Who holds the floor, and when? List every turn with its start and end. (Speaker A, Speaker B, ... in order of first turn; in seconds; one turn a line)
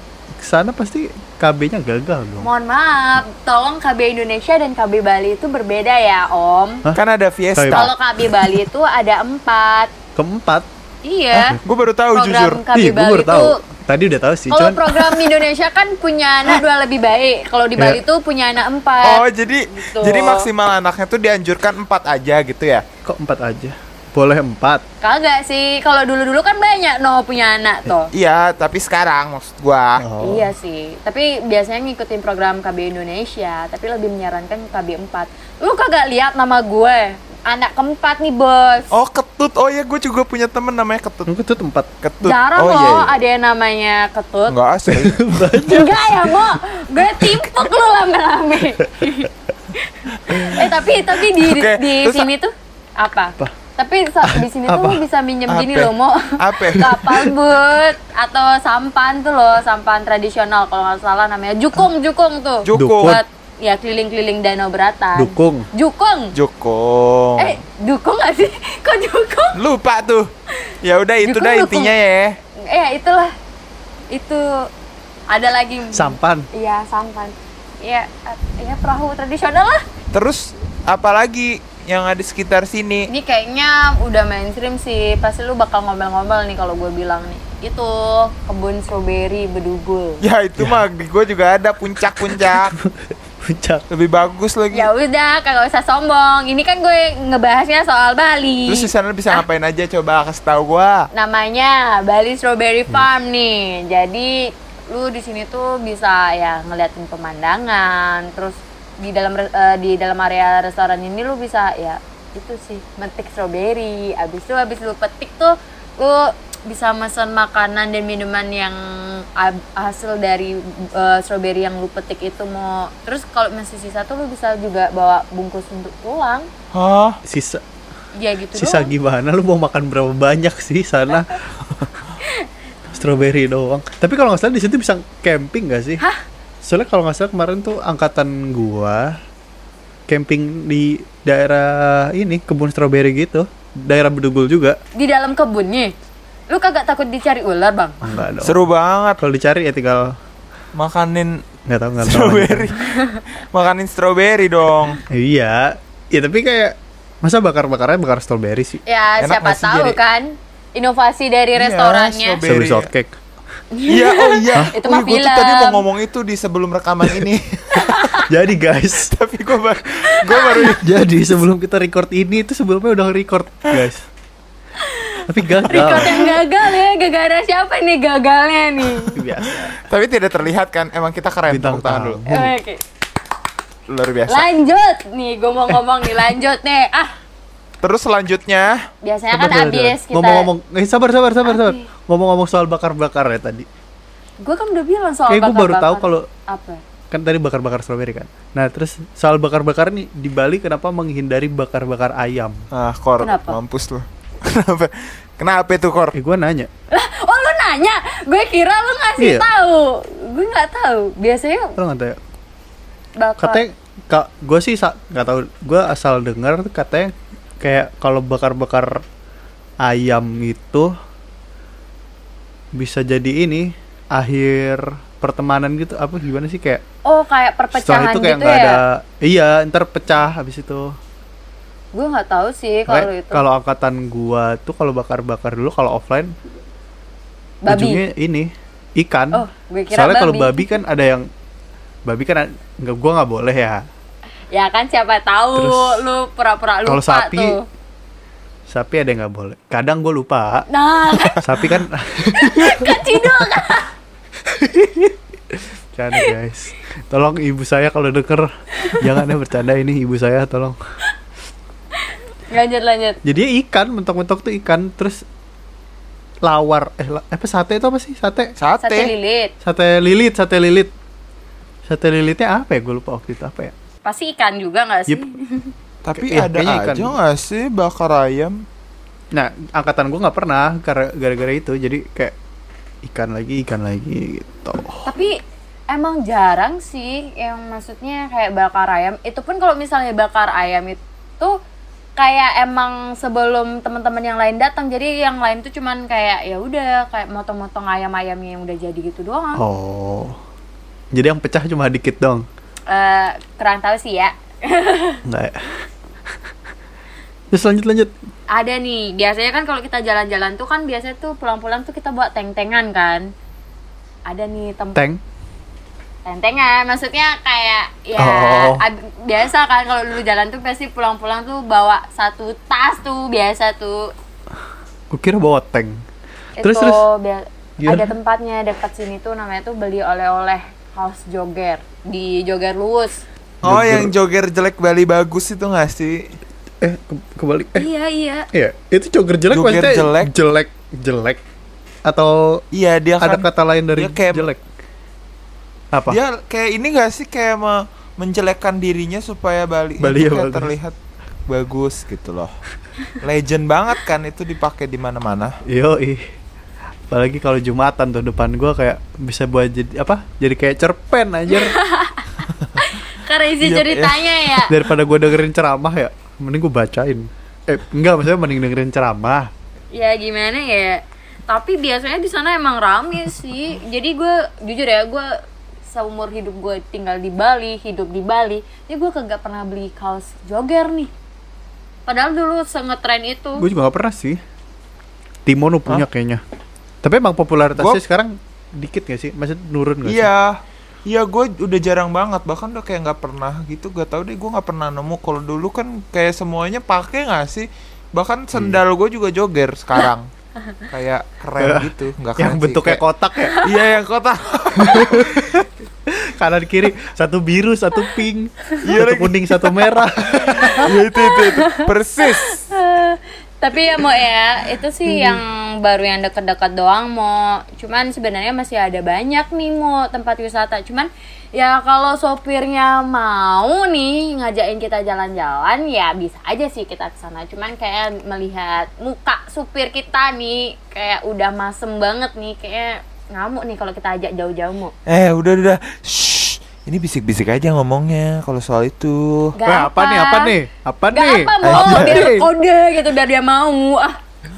Speaker A: 0.4-2.5
Speaker B: 2.4-6.8
Speaker C: 7.0-7.9
Speaker A: 7.6-7.9
Speaker B: 7.7-9.9
Speaker A: 10.2-10.7
Speaker B: 11.1-11.6
Speaker C: 11.3-12.6
Speaker B: 12.1-13.6
Speaker A: 12.7-15.3
Speaker B: 14.5-20.5
Speaker A: 17.8-18.0
Speaker C: 19.0-22.8
Speaker A: 23.1-24.8
Speaker B: 25.0-28.1
Speaker C: 28.1-30.0
Speaker A: 30.0-30.5
Speaker B: 30.2-38.9
Speaker C: 38.9-41.3
Speaker A: 41.3-41.9
Speaker C: 42.0-43.1
Speaker B: 42.2-44.6
Speaker C: 44.5-45.2
Speaker A: 44.9-46.3
Speaker B: 45.6-66.3
Speaker C: 50.3-50.6
Speaker C: 51.4-52.3
Speaker A: 54.2-55.0
Speaker C: 55.5-56.9
Speaker A: 56.8-57.3
Speaker C: 62.6-63.2
Speaker A: 62.7-63.2
Speaker A: 65.2-65.7
Speaker C: 66.3-67.6
Speaker B: 67.4-69.6
Speaker C: 69.5-70.3
Speaker C: 70.8-72.4
Speaker B: 71.2-71.9
Speaker B: 72.6-73.3
Speaker B: 74.1-74.7
Speaker B: 75.3-79.8
Speaker A: 75.9-76.5
Speaker C: 80.1-83.1
Speaker B: 83.1-90.3
Speaker C: 90.2-92.8
Speaker A: 90.6-90.9
Speaker A: 92.2-93.9
Speaker C: 93.9-94.9
Speaker B: 94.7-99.4
Speaker C: 98.7-101.1
Speaker B: 101.1-104.4
Speaker B: 104.9-126.5
Speaker C: 126.7-127.2
Speaker A: 127.2-127.6
Speaker B: 128.2-128.9
Speaker A: 128.6-131.4
Speaker B: 132.2-132.5
Speaker A: 132.9-136.0
Speaker A: 136.6-139.2
Speaker A: 140.1-144.8
Speaker B: 144.9-145.9
Speaker B: 146.5-148.0
Speaker A: 148.0-148.6
Speaker C: 148.4-149.2
Speaker A: 149.2-150.1
Speaker C: 150.7-151.5
Speaker A: 151.7-152.7
Speaker C: 152.0-155.0
Speaker B: 152.8-153.2
Speaker A: 155.1-158.8
Speaker B: 158.9-162.4
Speaker C: 159.2-160.0
Speaker C: 161.6-162.9
Speaker A: 162.4-163.2
Speaker B: 163.7-165.8
Speaker C: 163.9-168.2
Speaker B: 167.7-168.3
Speaker A: 168.3-169.1
Speaker C: 169.1-170.9
Speaker B: 170.2-170.7
Speaker A: 170.7-174.1
Speaker B: 174.8-179.2
Speaker A: 175.3-176.4
Speaker A: 179.2-179.8
Speaker C: 179.5-182.2
Speaker A: 181.5-182.6
Speaker B: 182.3-182.8
Speaker C: 183.9-184.4
Speaker B: 184.3-187.1
Speaker C: 187.8-188.8
Speaker B: 189.0-190.5
Speaker A: 189.3-193.7
Speaker B: 191.4-191.9
Speaker B: 194.4-196.8
Speaker A: 195.3-196.3
Speaker A: 197.1-202.7
Speaker C: 202.7-206.2
Speaker B: 203.2-203.6
Speaker A: 206.1-206.7
Speaker B: 206.9-211.8
Speaker A: 209.2-209.4
Speaker A: 211.8-212.2
Speaker B: 213.2-213.6
Speaker A: 213.4-219.0
Speaker A: 219.8-220.9
Speaker A: 222.8-226.8
Speaker B: 227.1-228.8
Speaker A: 227.7-231.0
Speaker B: 231.9-233.4
Speaker A: 232.9-236.3
Speaker B: 237.6-238.0
Speaker A: 237.7-241.3
Speaker B: 239.3-240.7
Speaker A: 242.1-243.8
Speaker B: 244.5-247.7
Speaker A: 245.6-246.1
Speaker A: 246.9-247.6
Speaker A: 248.7-250.7
Speaker B: 250.7-251.6
Speaker A: 251.4-253.3
Speaker B: 252.3-253.9
Speaker A: 254.4-260.8
Speaker B: 258.8-259.2
Speaker B: 262.0-263.2
Speaker A: 263.2-265.2
Speaker A: 266.4-268.6
Speaker C: 268.6-269.1
Speaker B: 268.8-269.5
Speaker A: 269.6-270.9
Speaker A: 271.9-273.7
Speaker B: 274.0-275.7
Speaker C: 276.0-278.6
Speaker A: 276.1-277.1
Speaker A: 279.3-282.4
Speaker A: 283.1-285.1
Speaker B: 285.1-285.3
Speaker B: 285.9-291.5
Speaker B: 292.2-299.6
Speaker A: 299.6-300.4
Speaker A: 301.1-302.5
Speaker B: 302.9-305.2
Speaker A: 305.3-305.7
Speaker A: 307.5-308.1
Speaker B: 308.5-313.3
Speaker B: 314.3-315.0
Speaker A: 314.9-315.2
Speaker B: 316.2-324.1
Speaker A: 318.2-318.9
Speaker A: 325.1-326.0
Speaker B: 326.6-333.2
Speaker A: 326.6-327.0
Speaker A: 327.8-328.1
Speaker C: 333.6-336.3
Speaker A: 333.6-334.2
Speaker A: 336.8-337.9
Speaker B: 337.8-338.5
Speaker A: 338.5-341.4
Speaker C: 339.5-340.3
Speaker A: 342.1-342.6
Speaker C: 342.7-344.5
Speaker A: 343.2-344.6
Speaker A: 345.9-346.2
Speaker C: 346.1-350.9
Speaker A: 350.0-350.7
Speaker C: 351.5-352.5
Speaker C: 353.2-355.5
Speaker A: 355.7-356.2
Speaker A: 357.1-361.8
Speaker B: 361.5-364.7
Speaker C: 363.6-364.6
Speaker A: 364.7-369.5
Speaker B: 369.9-375.3
Speaker B: 375.9-381.1
Speaker B: 382.1-383.6
Speaker A: 383.6-384.4
Speaker A: 385.5-386.4
Speaker A: 387.0-390.3
Speaker C: 390.1-400.3
Speaker A: 398.5-398.8
Speaker C: 400.9-403.0
Speaker A: 401.6-403.6
Speaker C: 403.6-405.7
Speaker A: 404.8-410.9
Speaker C: 408.8-412.6
Speaker B: 411.1-434.9
Speaker A: 415.1-415.4
Speaker C: 435.1-439.6
Speaker B: 439.6-440.6
Speaker A: 439.7-442.5
Speaker B: 441.1-444.2
Speaker C: 441.6-442.3